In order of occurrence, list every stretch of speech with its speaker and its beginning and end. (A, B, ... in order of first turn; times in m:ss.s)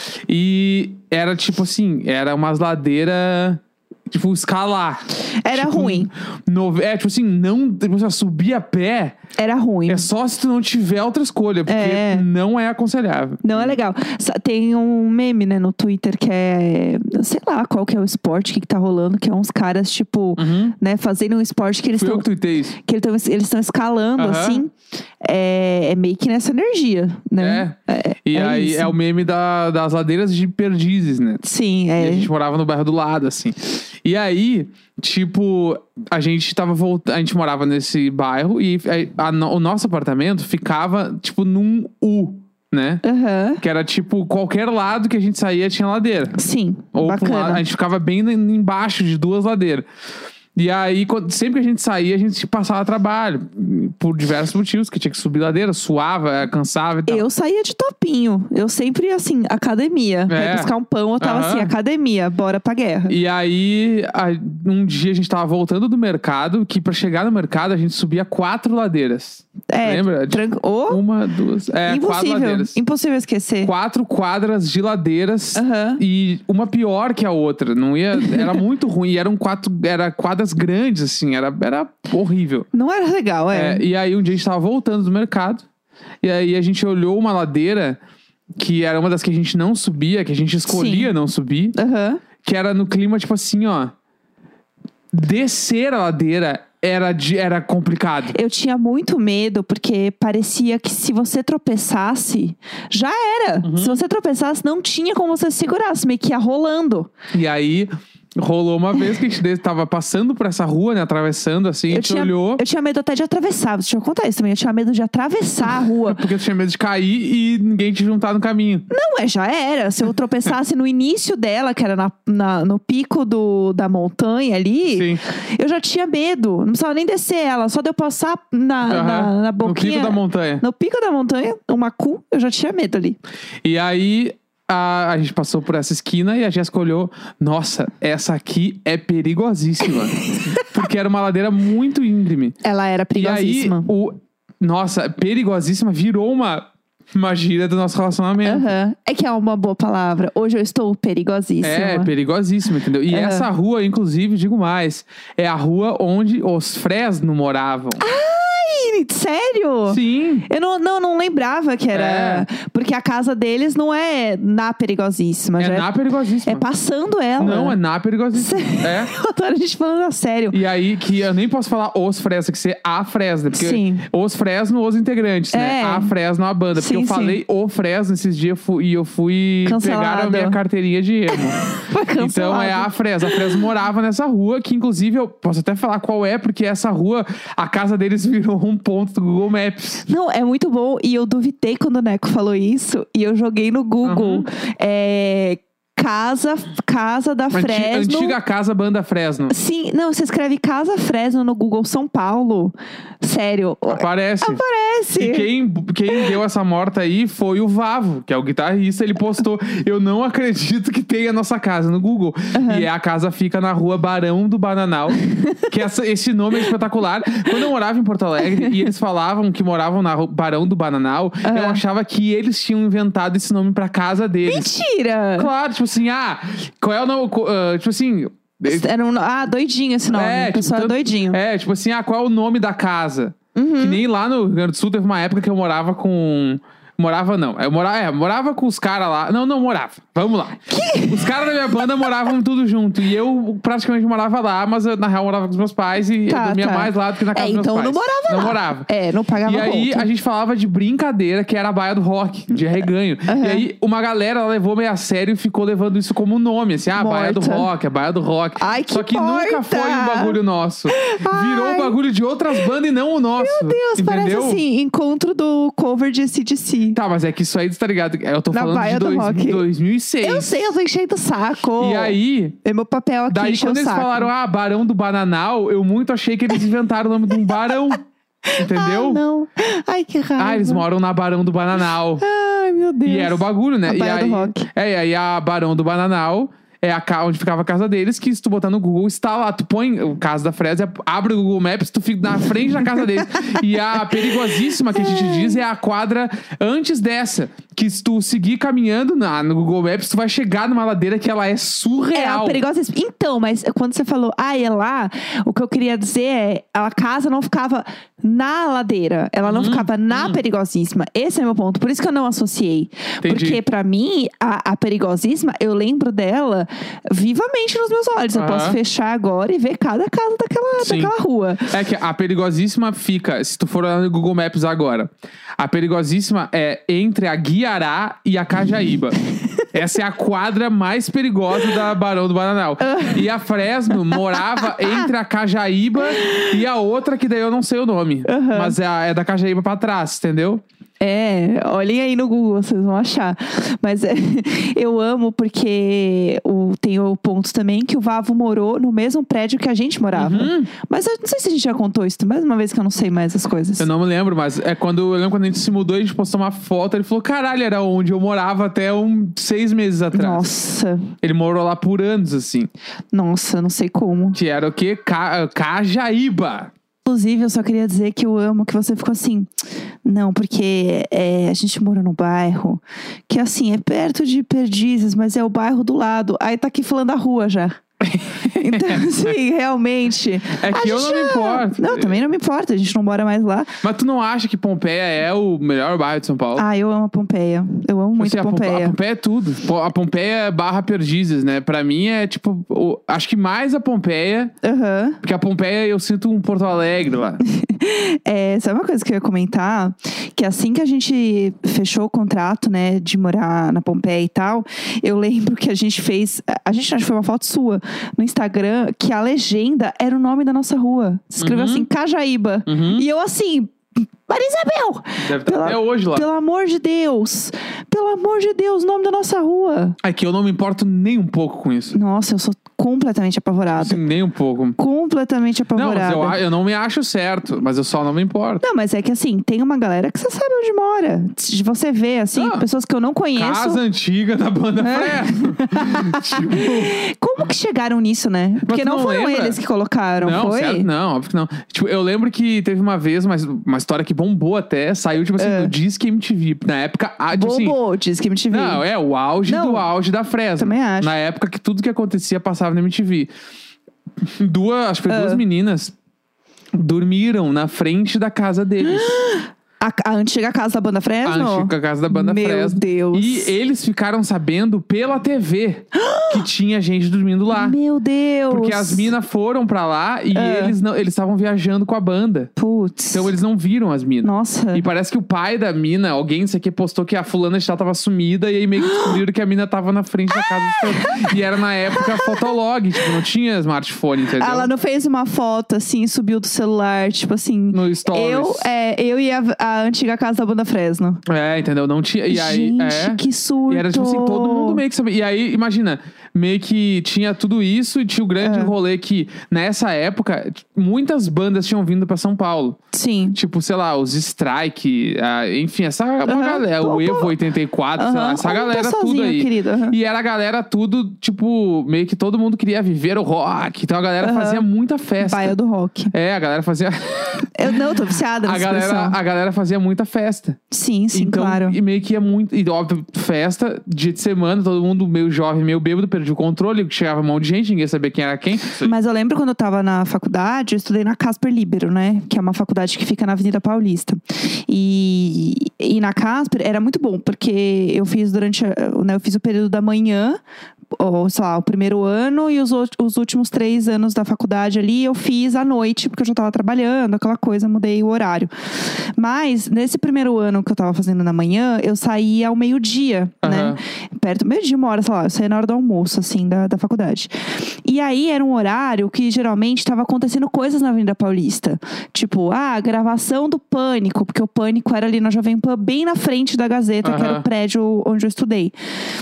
0:00.3-0:09.2 A
0:05.4-0:06.1 B
0:09.4-0:10.1 B
0:09.9-0:13.8 A
0:11.7-0:12.3 B
0:13.4-0:22.3 B
0:20.4-0:20.8 A
0:22.0-0:22.8 A
0:22.8-0:29.0 B
0:24.2-0:24.6 A
0:27.4-0:27.8 A
0:28.3-0:31.4 A
0:31.4-0:32.3 B
0:32.0-0:43.0 A
0:43.0-0:43.6 B
0:43.6-0:46.4 A
0:46.4-0:47.6 B
0:46.9-0:49.9 A
0:50.6-0:57.2 A
0:57.1-1:03.2 B
1:00.3-1:01.7 A
1:03.1-1:12.8 A
1:09.7-1:11.0 B
1:11.9-1:13.7 B
1:13.6-1:22.7 A
1:15.6-1:16.0 B
1:18.2-1:18.6 B
1:22.7-1:23.8 B
1:23.5-1:25.6 A
1:26.2-1:28.0 A
1:28.6-1:31.8 A
1:30.7-1:31.1 B
1:31.8-1:32.2 B
1:32.4-1:33.9 A
1:35.1-1:38.4 A
1:38.3-1:47.1 B
1:43.6-1:44.0 A
1:47.3-1:52.6 A
1:51.9-1:56.2 B
1:55.8-1:58.9 A
1:58.9-2:13.2 B
2:04.9-2:05.2 A
2:08.9-2:10.6 A
2:13.6-2:22.6 A
2:22.6-2:23.9 B
2:23.2-2:28.7 A
2:28.4-2:32.1 B
2:31.6-2:38.0 A
2:33.1-2:33.5 B
2:38.0-2:45.9 B
2:39.9-2:40.5 A
2:41.9-2:42.5 A
2:45.6-2:46.6 A
2:46.4-2:47.8 B
2:47.4-2:49.1 A
2:48.3-2:50.6 B
2:50.5-3:01.6 A
2:53.5-2:54.0 B
2:55.5-2:56.1 B
2:56.8-2:57.4 B
2:59.6-3:00.6 B
3:01.3-3:03.4 B
3:02.2-3:10.0 A
3:10.1-3:18.4 B
3:14.0-3:14.5 A
3:17.5-3:19.5 A
3:19.5-3:25.5 B
3:23.9-3:24.6 A
3:25.2-3:35.2 A
3:32.5-3:32.9 B
3:35.3-3:35.6 B
3:35.7-3:44.8 A
3:38.4-3:38.7 B
3:41.4-3:41.8 B
3:44.5-3:45.5 B
3:45.4-3:48.9 A
3:48.7-3:51.4 B
3:50.1-4:08.9 A
3:53.6-3:54.0 B
4:00.7-4:02.1 B
4:06.3-4:10.1 B
4:09.4-4:24.6 A
4:13.3-4:13.7 B
4:17.0-4:17.7 B
4:18.6-4:20.4 B
4:20.9-4:22.0 B
4:23.4-4:27.0 B
4:26.9-4:30.5 A
4:28.5-4:29.6 B
4:30.2-4:34.3 B
4:31.8-4:32.6 A
4:33.3-4:38.0 A
4:37.4-4:37.8 B
4:38.5-4:40.8 B
4:38.6-4:39.2 A
4:40.4-4:42.2 A
4:42.2-4:44.7 B
4:43.0-5:02.6 A
4:52.8-4:55.6 B
5:02.1-5:21.7 B
5:09.4-5:10.4 A
5:13.2-5:13.6 A
5:18.3-5:18.8 A
5:20.8-5:21.1 A
5:21.7-5:29.2 A
5:29.7-5:40.6 A
5:32.8-5:33.2 B
5:34.1-5:35.1 B
5:36.1-5:36.5 B
5:38.3-5:38.8 B
5:41.0-5:53.9 B
5:50.1-5:50.7 A
5:53.8-6:00.5 A
6:00.1-6:01.1 B
6:01.2-6:02.7 A
6:03.1-6:04.4 B
6:04.3-6:06.7 A
6:07.0-6:09.5 B
6:10.0-6:17.8 B
6:18.0-6:19.2 A
6:18.5-6:23.7 B
6:20.6-6:22.2 A
6:23.8-6:26.6 A
6:26.6-6:29.0 B
6:28.2-6:34.5 A
6:34.6-6:35.2 B
6:35.2-6:37.4 A
6:37.4-7:00.0 B
6:51.4-6:51.9 A
6:52.7-6:53.1 A
6:55.2-6:56.3 A
7:00.0-7:02.0 A
7:01.9-7:04.0 B
7:03.8-7:04.8 A
7:04.8-7:06.4 B
7:05.8-7:08.6 A
7:08.6-7:13.8 B
7:12.4-7:12.6 A
7:13.4-7:17.0 A
7:14.8-7:20.9 B
7:18.6-7:19.6 A
7:20.2-7:27.8 A
7:25.4-7:25.7 B
7:27.3-7:28.8 B
7:28.5-7:33.3 A
7:29.5-7:29.9 B
7:30.6-7:31.1 B
7:34.4-7:36.0 A
7:35.1-7:35.4 B
7:36.7-7:39.2 A
7:39.0-7:43.5 B
7:41.2-7:47.8 A
7:46.0-7:46.4 B
7:47.5-7:49.1 B
7:48.5-7:52.5 A
7:50.3-7:50.8 B
7:52.6-7:53.3 B
7:53.1-8:04.7 A
7:54.2-7:54.8 B
7:58.9-7:59.1 B
8:00.4-8:01.3 B
8:02.0-8:02.3 B
8:04.4-8:11.2 B
8:07.7-8:08.7 A
8:11.3-8:22.8 A
8:12.3-8:14.8 B
8:18.4-8:18.7 B
8:22.9-8:23.4 B
8:23.3-8:35.6 A
8:26.3-8:27.3 B
8:28.0-8:30.0 B
8:34.2-8:34.7 B
8:35.2-8:36.1 B
8:36.1-8:37.8 A
8:37.6-8:39.2 B
8:38.4-8:40.6 A
8:40.7-8:41.8 B
8:41.1-8:48.9 A
8:48.8-9:00.4 B
9:00.9-9:08.5 B
9:09.2-9:17.3 B
9:13.4-9:13.8 A
9:17.8-9:28.8 B
9:27.0-9:27.4 A